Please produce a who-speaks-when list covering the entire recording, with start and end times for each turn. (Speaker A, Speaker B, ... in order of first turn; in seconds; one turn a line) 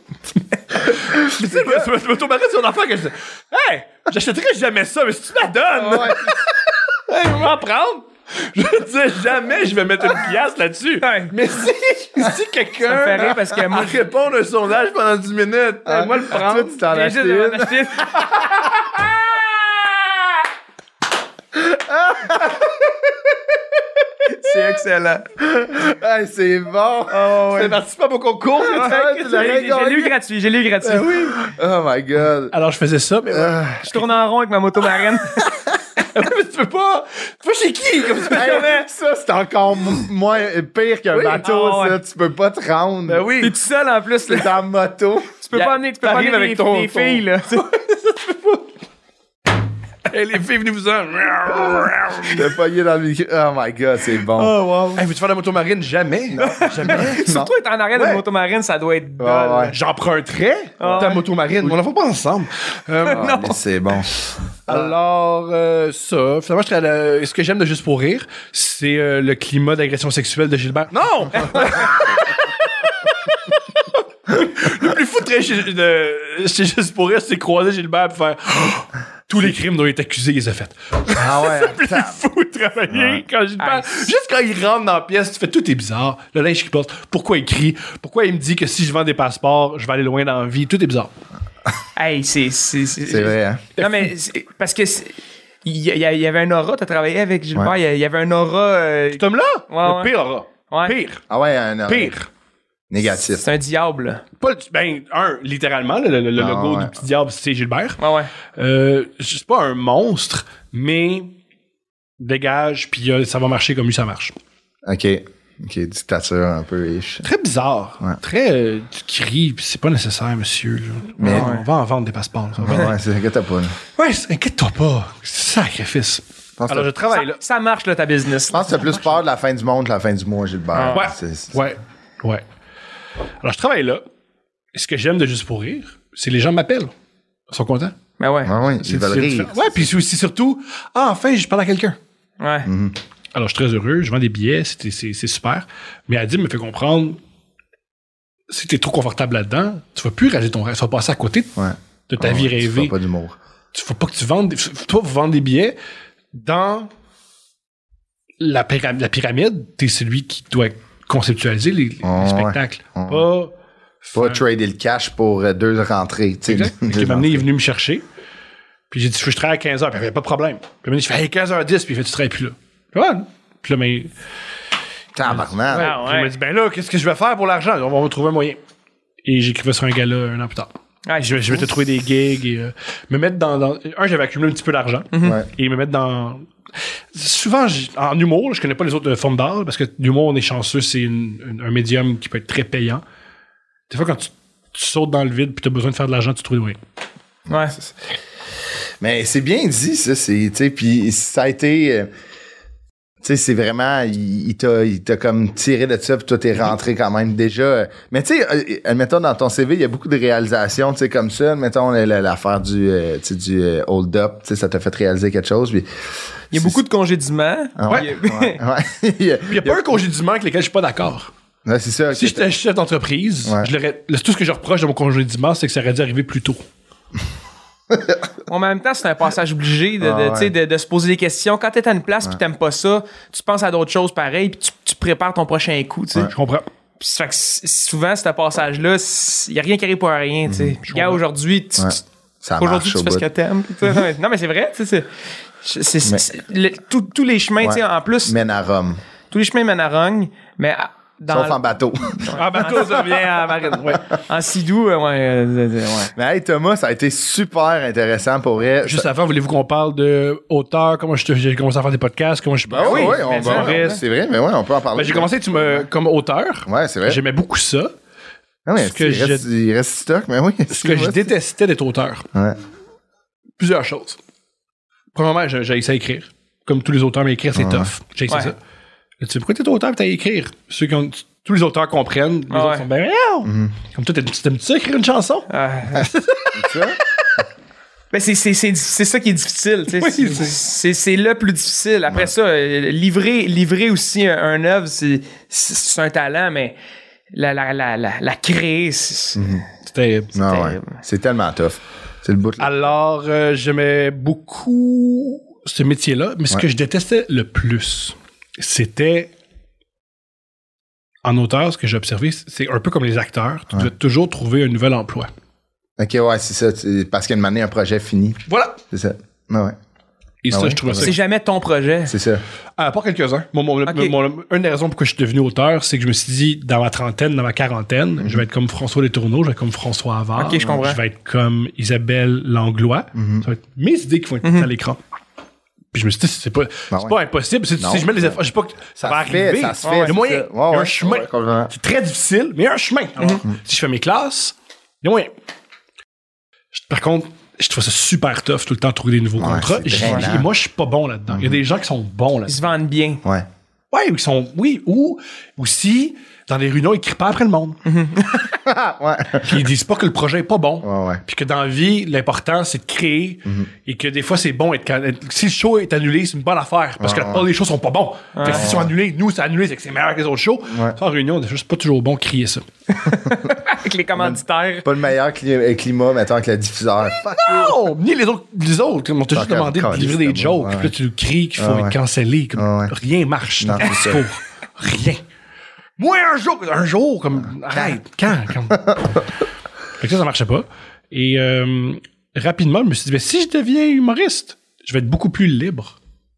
Speaker A: 0.8-1.9
Speaker B: 1.1-6.4
Speaker A: 5.8-6.4
Speaker B: 6.9-16.9
Speaker C: 11.0-11.3
Speaker C: 12.8-14.0
Speaker A: 15.9-17.9
Speaker C: 16.9-18.2
Speaker B: 18.2-19.5
Speaker A: 21.5-23.3
Speaker C: 24.3-25.2
Speaker A: 25.4-27.3
Speaker C: 27.1-27.8
Speaker B: 27.4-29.6
Speaker A: 28.6-30.1
Speaker C: 28.7-31.3
Speaker B: 30.9-31.3
Speaker A: 31.1-32.5
Speaker B: 32.5-34.0
Speaker A: 33.3-33.9
Speaker C: 33.8-35.5
Speaker B: 36.0-38.8
Speaker A: 38.3-43.3
Speaker C: 38.3-38.7
Speaker B: 41.1-41.5
Speaker C: 41.4-42.0
Speaker B: 43.1-43.5
Speaker C: 43.4-44.5
Speaker A: 44.3-45.4
Speaker C: 45.4-47.6
Speaker B: 45.5-48.7
Speaker B: 50.1-52.5
Speaker A: 52.2-54.6
Speaker B: 54.4-57.3
Speaker C: 54.4-55.0
Speaker A: 56.3-57.5
Speaker C: 56.4-59.7
Speaker B: 58.0-58.2
Speaker A: 59.2-59.8
Speaker B: 59.7-63.4
Speaker C: 60.8-61.2
Speaker A: 60.8-61.1
Speaker C: 63.1-63.6
Speaker A: 63.1-65.0
Speaker B: 64.7-91.1
Speaker C: 71.3-71.9
Speaker A: 81.1-82.2
Speaker A: 82.9-83.2
Speaker C: 83.6-84.1
Speaker C: 92.0-100.1
Speaker A: 93.1-93.7
Speaker B: 93.8-94.1
Speaker B: 99.2-101.2
Speaker C: 100.7-101.0
Speaker A: 101.3-102.1
Speaker B: 101.9-102.3
Speaker A: 102.9-103.4
Speaker C: 103.2-104.2
Speaker B: 104.4-108.0
Speaker A: 106.4-107.0
Speaker C: 108.0-108.3
Speaker B: 108.5-111.4
Speaker B: 112.2-114.3
Speaker A: 114.9-117.2
Speaker B: 117.2-123.0
Speaker A: 121.2-121.5
Speaker C: 121.3-121.7
Speaker A: 122.6-123.8
Speaker B: 124.0-127.4
Speaker A: 126.6-126.9
Speaker C: 127.1-128.9
Speaker A: 128.5-131.6
Speaker B: 128.8-129.1
Speaker C: 130.7-131.1
Speaker B: 130.9-132.4
Speaker B: 133.4-134.0
Speaker B: 134.7-136.9
Speaker B: 137.5-138.0
Speaker C: 138.2-138.5
Speaker A: 138.5-139.9
Speaker B: 138.8-142.0
Speaker C: 142.4-142.7
Speaker A: 142.7-143.0
Speaker B: 143.3-147.2
Speaker B: 148.5-151.5
Speaker A: 151.6-153.4
Speaker B: 152.1-152.9
Speaker B: 153.7-155.8
Speaker B: 156.3-156.9
Speaker B: 158.4-164.4
Speaker A: 162.0-163.3
Speaker A: 164.2-167.5
Speaker B: 166.5-168.0
Speaker B: 168.9-174.1
Speaker A: 175.2-175.9
Speaker B: 175.2-178.6
Speaker C: 175.8-176.3
Speaker B: 179.2-186.5
Speaker C: 181.1-181.6
Speaker C: 185.1-185.4
Speaker B: 187.1-193.0
Speaker B: 193.9-196.8
Speaker C: 197.5-197.8
Speaker A: 197.5-197.9
Speaker A: 199.0-202.1
Speaker A: 203.2-215.9
Speaker C: 216.5-218.6
Speaker A: 217.8-219.9
Speaker B: 219.5-221.3
Speaker A: 221.7-222.4
Speaker B: 222.1-226.6
Speaker A: 227.9-228.2
Speaker C: 228.5-236.3
Speaker A: 230.0-230.5
Speaker B: 236.3-236.7
Speaker C: 237.0-242.0
Speaker A: 240.5-240.8
Speaker B: 240.8-241.2
Speaker A: 241.8-243.3
Speaker C: 242.6-245.1
Speaker C: 245.6-248.3
Speaker A: 247.6-249.0
Speaker C: 249.3-251.6
Speaker A: 251.3-252.4
Speaker C: 252.2-256.1
Speaker B: 252.3-254.0
Speaker A: 256.1-259.1
Speaker B: 258.8-264.0
Speaker A: 262.7-265.9
Speaker C: 262.8-264.0
Speaker B: 264.9-267.9
Speaker A: 266.7-267.2
Speaker A: 268.7-271.3
Speaker B: 268.8-269.5
Speaker B: 270.7-272.3
Speaker B: 273.6-274.2
Speaker B: 275.1-278.6
Speaker A: 277.6-277.9
Speaker B: 279.2-286.9
Speaker C: 282.5-282.9
Speaker A: 283.4-283.7
Speaker C: 285.5-286.1
Speaker A: 286.6-287.0
Speaker C: 288.1-296.8
Speaker B: 290.0-290.6
Speaker C: 297.3-299.6
Speaker A: 299.4-299.6
Speaker B: 299.8-300.3
Speaker A: 300.4-302.8
Speaker C: 300.4-301.0
Speaker B: 302.6-309.3
Speaker B: 311.2-315.3
Speaker A: 316.0-319.8
Speaker B: 318.5-318.8
Speaker B: 320.4-321.2
Speaker A: 320.5-321.1
Speaker C: 321.0-322.1
Speaker A: 322.1-322.4
Speaker B: 322.8-335.0
Speaker C: 323.9-324.2
Speaker A: 328.2-328.4
Speaker C: 330.4-331.0
Speaker A: 333.1-333.5
Speaker C: 334.4-334.7
Speaker B: 335.9-345.3
Speaker A: 337.8-338.4
Speaker A: 339.0-341.7
Speaker C: 339.8-340.1
Speaker C: 343.2-343.4
Speaker B: 346.7-352.7
Speaker A: 349.4-350.5
Speaker A: 351.3-351.6
Speaker C: 352.5-353.2
Speaker B: 353.9-357.8
Speaker C: 357.9-358.5
Speaker A: 358.5-359.6
Speaker B: 359.4-372.6
Speaker A: 360.8-361.2
Speaker A: 367.0-367.5
Speaker C: 368.4-368.7
Speaker A: 368.5-368.9
Speaker A: 370.7-371.0
Speaker C: 372.9-374.9
Speaker A: 374.2-377.8
Speaker B: 377.2-385.2
Speaker A: 379.3-380.9
Speaker A: 381.6-382.0
Speaker A: 382.6-382.9
Speaker A: 383.6-384.2
Speaker B: 386.0-389.2
Speaker A: 387.7-388.0
Speaker A: 388.7-389.2
Speaker B: 390.0-395.9